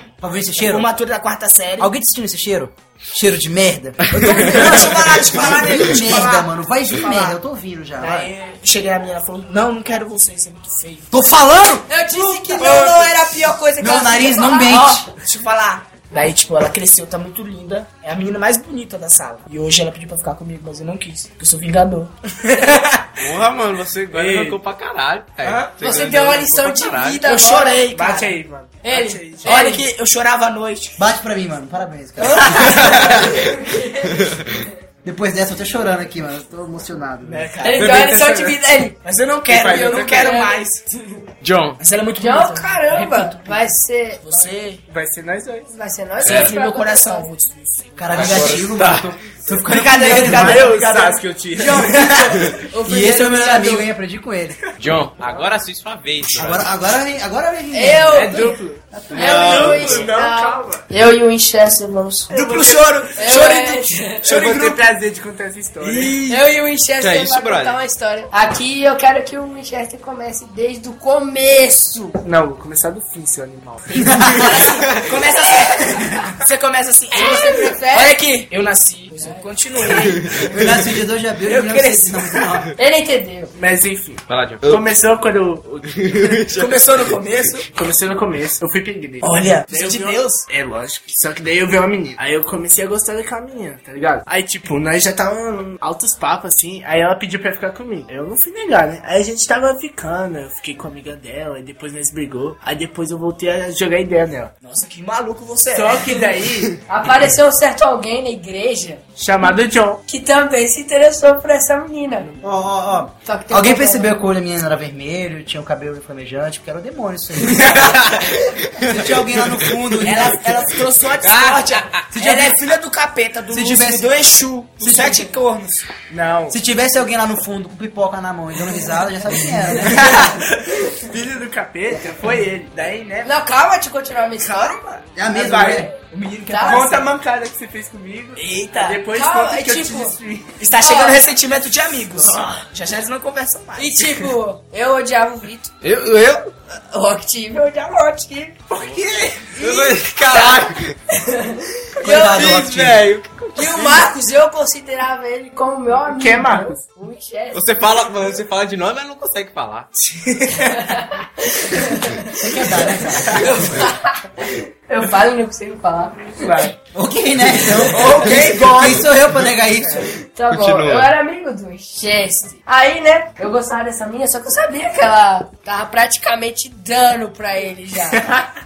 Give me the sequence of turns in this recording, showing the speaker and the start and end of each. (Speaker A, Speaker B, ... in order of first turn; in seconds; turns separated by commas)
Speaker A: 0.2-0.9, Speaker B: 0.6-1.9, Speaker A: 1.8-8.3, Speaker B: 4.3-7.4, Speaker B: 8.0-11.1, Speaker A: 11.1-13.1, Speaker C: 11.9-14.8, Speaker B: 12.6-12.9, Speaker A: 13.8-15.1, Speaker B: 14.7-23.1, Speaker D: 23.2-27.3, Speaker E: 24.1-24.6, Speaker B: 25.4-25.7, Speaker C: 25.8-27.9, Speaker B: 27.2-28.4, Speaker E: 27.9-29.6, Speaker C: 28.8-29.9, Speaker B: 29.4-31.0, Speaker A: 31.0-33.0, Speaker B: 32.2-33.1, Speaker C: 32.4-34.3, Speaker A: 35.0-37.5, Speaker B: 37.2-38.2, Speaker C: 37.6-39.0, Speaker E: 37.8-38.4, Speaker D: 37.8-38.5, Speaker B: 39.0-40.9, Speaker E: 39.5-40.4, Speaker C: 39.6-40.6, Speaker D: 41.4-41.8, Speaker B: 41.8-44.8, Speaker C: 42.2-44.2, Speaker E: 44.9-45.7, Speaker C: 45.7-47.3, Speaker D: 46.2-46.5, Speaker B: 46.2-48.4, Speaker A: 48.0-50.7, Speaker D: 48.1-49.1, Speaker B: 49.5-52.4, Speaker E: 50.1-52.0, Speaker A: 51.6-54.6, Speaker C: 52.0-53.9, Speaker D: 54.8-56.7, Speaker A: 56.3-59.6, Speaker C: 57.7-58.6, Speaker E: 58.1-60.8, Speaker D: 59.1-60.1, Speaker C: 59.1-62.3, Speaker E: 62.3-62.9, Speaker B: 62.3-64.8, Speaker C: 63.2-64.2, Speaker E: 64.2-66.2, Speaker D: 65.8-67.8, Speaker C: 66.3-72.1, Speaker E: 72.2-73.8, Speaker B: 73.9-80.4, Speaker A: 74.0-74.6, Speaker C: 77.1-78.2, Speaker C: 79.2-79.4, Speaker A: 80.3-82.7, Speaker B: 81.4-82.4, Speaker C: 82.8-83.5, Speaker E: 83.5-86.4, Speaker D: 84.3-84.8, Speaker D: 85.9-87.1, Speaker B: 86.5-87.7, Speaker E: 87.7-104.5, Speaker B: 89.2-90.4, Speaker B: 104.6-106.1, Speaker E: 105.7-106.8, Speaker C: 106.9-109.0, Speaker E: 109.2-110.0, Speaker C: 110.1-112.3, Speaker A: 112.4-118.2, Speaker C: 113.2-114.2, Speaker D: 117.9-118.2, Speaker A: 118.8-120.4, Speaker D: 118.8-119.1, Speaker B: 120.0-125.9, Speaker D: 121.2-121.6, Speaker A: 122.1-122.6, Speaker A: 123.5-124.1, Speaker A: 124.8-125.2, Speaker E: 126.1-126.6, Speaker A: 126.5-130.4, Speaker E: 129.9-133.3, Speaker C: 133.2-134.8, Speaker B: 134.4-134.8, Speaker A: 135.1-135.9, Speaker E: 135.3-135.9, Speaker B: 135.3-137.1, Speaker C: 136.5-136.9, Speaker E: 136.6-140.6, Speaker B: 138.4-139.0, Speaker C: 139.1-140.1, Speaker B: 140.6-144.3, Speaker C: 140.8-141.2, Speaker C: 143.8-145.7, Speaker D: 145.8-146.5, Speaker C: 146.9-148.6, Speaker C: 149.6-152.5, Speaker D: 149.6-150.9, Speaker A: 152.0-153.1, Speaker D: 152.3-154.1, Speaker C: 153.5-157.7, Speaker E: 156.0-156.8, Speaker D: 157.5-159.9, Speaker B: 160.1-160.7, Speaker C: 160.7-162.4, Speaker A: 162.3-163.4, Speaker C: 163.2-166.7, Speaker E: 166.4-166.7, Speaker A: 166.9-170.1, Speaker E: 167.8-169.0, Speaker B: 167.9-169.0, Speaker C: 170.3-178.2, Speaker D: 170.5-171.1, Speaker E: 178.1-178.4